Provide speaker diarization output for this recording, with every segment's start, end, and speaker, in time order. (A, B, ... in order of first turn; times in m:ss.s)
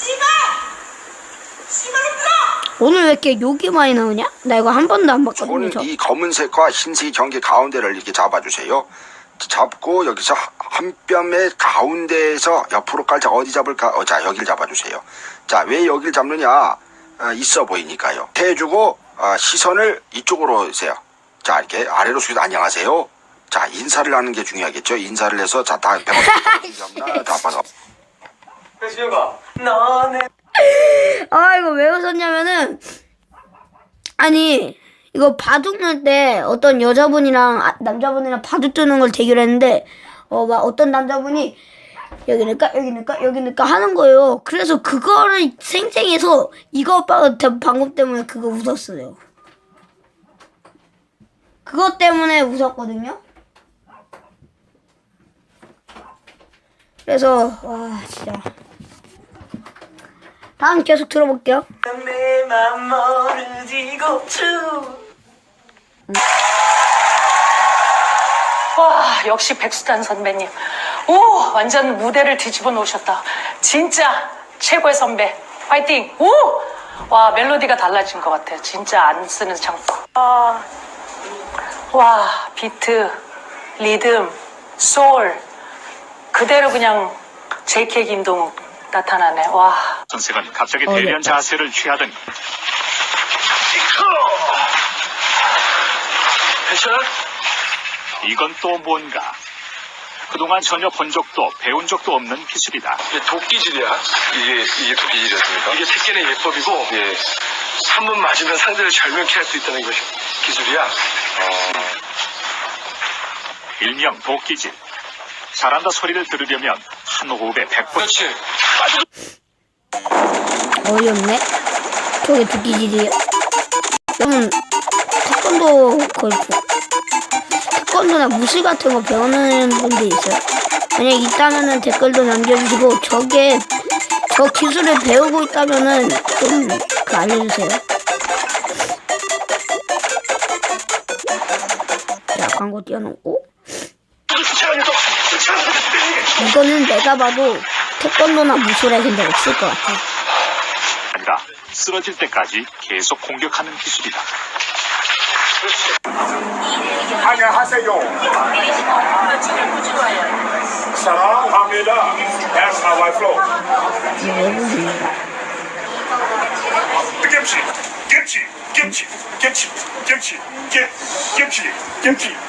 0:02.8-0:05.9 A
0:05.3-0:27.6 B
0:26.2-0:27.3 A
0:30.6-0:32.8 A
0:34.2-0:41.6 A
0:42.3-0:49.2 A
0:51.6-0:53.2 A
0:57.1-0:58.5 A
1:00.6-1:01.7 A
1:08.8-1:20.6 C
1:21.9-1:23.2 C
1:23.8-1:25.4 C
1:26.3-1:30.0 C
1:30.1-1:32.2 D
1:30.9-1:31.3 A
1:36.7-1:37.1 E
1:38.2-1:39.4 D
1:40.3-1:43.0 D
1:43.2-1:47.2 E
1:47.9-1:50.9 E
1:53.8-1:54.8 D
1:55.5-1:58.3 D
2:00.8-2:01.5 A
2:02.2-2:03.2 A
2:04.2-2:04.6 A
2:05.2-2:06.6 A
2:07.8-2:10.4 A
2:11.0-2:13.7 A
2:14.3-2:17.8 A
2:22.4-2:23.4 A
2:26.3-2:30.0 A
2:31.1-2:34.3 D
2:37.2-2:38.1 F
2:41.0-2:43.4 F
2:44.2-2:45.2 A
2:47.2-2:52.4 F